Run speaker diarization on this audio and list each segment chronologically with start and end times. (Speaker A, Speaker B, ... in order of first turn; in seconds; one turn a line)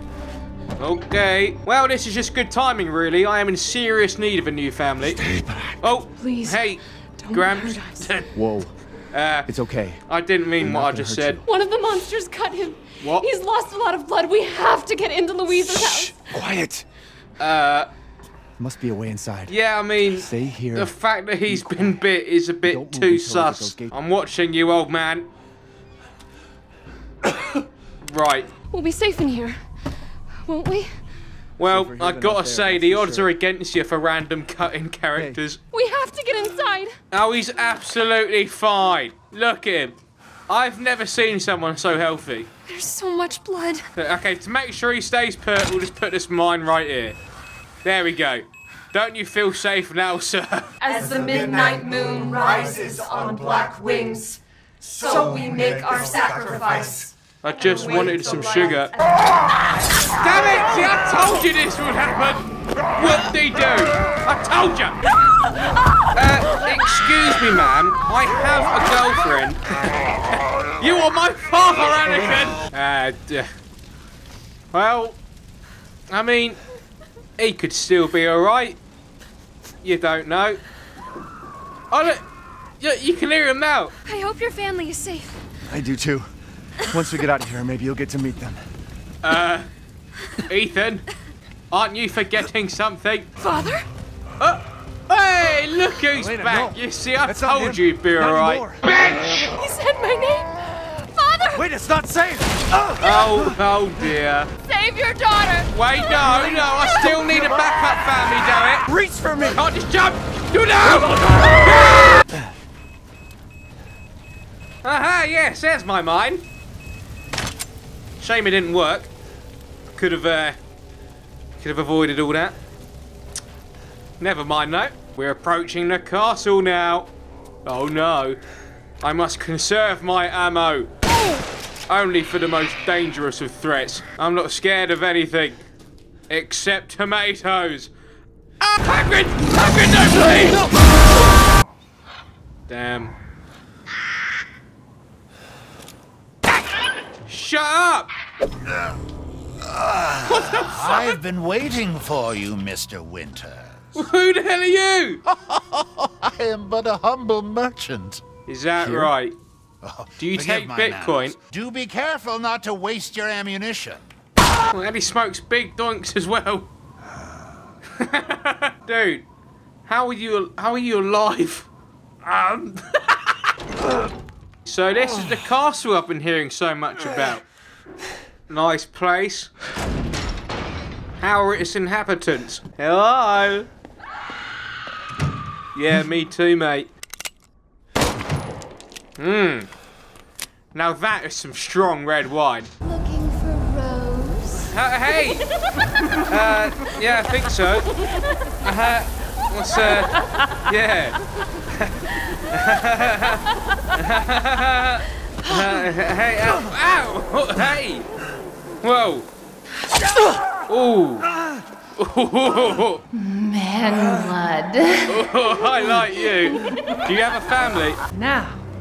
Speaker A: 0.8-5.3
Speaker B: 5.0-5.8
Speaker A: 5.8-8.3
Speaker C: 6.2-6.7
Speaker C: 7.2-8.1
Speaker B: 8.3-8.7
Speaker A: 9.1-9.5
Speaker B: 9.5-10.1
Speaker A: 10.1-11.4
Speaker B: 10.6-11.5
Speaker C: 11.4-16.3
Speaker A: 13.0-13.3
Speaker B: 15.6-16.9
Speaker A: 17.4-17.9
Speaker B: 18.6-19.5
Speaker A: 19.5-25.3
Speaker B: 20.1-20.9
Speaker B: 21.5-22.0
Speaker B: 22.6-23.9
Speaker A: 28.0-28.5
Speaker C: 28.7-31.0
Speaker A: 31.6-35.6
Speaker B: 31.6-33.3
Speaker B: 35.2-35.4
Speaker C: 35.7-37.0
Speaker A: 37.1-40.0
Speaker A: 40.5-42.5
Speaker C: 42.7-43.9
Speaker A: 44.0-47.2
Speaker A: 47.8-50.8
Speaker C: 50.8-54.4
Speaker D: 51.1-51.9
Speaker D: 52.8-53.2
Speaker C: 55.0-57.1
Speaker D: 55.1-57.1
Speaker A: 57.4-58.9
Speaker D: 57.8-59.1
Speaker A: 60.1-65.0
Speaker A: 66.1-69.6
Speaker A: 70.8-73.5
Speaker A: 74.7-75.2
Speaker A: 76.1-76.6
Speaker A: 77.4-78.8
Speaker A: 79.8-80.6
Speaker A: 81.9-82.2
Speaker A: 82.8-83.9
Speaker C: 84.0-85.4
Speaker B: 85.7-86.3
Speaker B: 86.8-88.6
Speaker A: 89.2-89.7
Speaker A: 90.4-91.1
Speaker A: 91.7-93.3
Speaker C: 93.4-93.9
Speaker A: 94.4-99.3
Speaker B: 96.2-98.8
Speaker C: 99.5-101.7
Speaker B: 101.5-103.6
Speaker A: 103.0-104.5
Speaker C: 104.6-107.2
Speaker A: 105.7-108.9
Speaker B: 108.9-109.6
Speaker A: 109.4-112.3
Speaker A: 114.8-116.4
Speaker A: 118.2-119.1
Speaker A: 119.9-120.6
Speaker A: 121.6-122.6
Speaker A: 124.2-127.1
Speaker A: 127.7-128.4
Speaker A: 129.0-130.9
Speaker A: 131.9-135.7
Speaker A: 136.3-137.9
Speaker A: 138.6-140.7
Speaker A: 142.7-143.1
Speaker A: 147.3-148.1
Speaker E: 149.7-153.8
Speaker A: 150.2-151.2
Speaker A: 153.9-155.2
Speaker E: 155.3-158.2
Speaker A: 158.5-159.3
Speaker B: 158.8-159.1
Speaker E: 159.8-164.0
Speaker A: 160.2-161.4
Speaker A: 164.7-166.7
Speaker A: 168.0-169.3
Speaker A: 169.9-171.7
Speaker A: 172.2-173.5
Speaker A: 174.7-177.4
Speaker A: 178.5-179.5
Speaker A: 181.2-183.7
Speaker A: 185.8-186.9
Speaker A: 189.2-189.7
Speaker A: 190.7-192.7
Speaker C: 192.8-194.8
Speaker A: 194.7-195.5
Speaker A: 196.2-198.0
Speaker A: 198.6-208.1
Speaker A: 208.8-209.3
Speaker A: 210.7-211.3
Speaker A: 212.0-213.0
Speaker C: 213.1-215.3
Speaker A: 215.1-218.0
Speaker C: 215.9-217.0
Speaker D: 218.1-218.6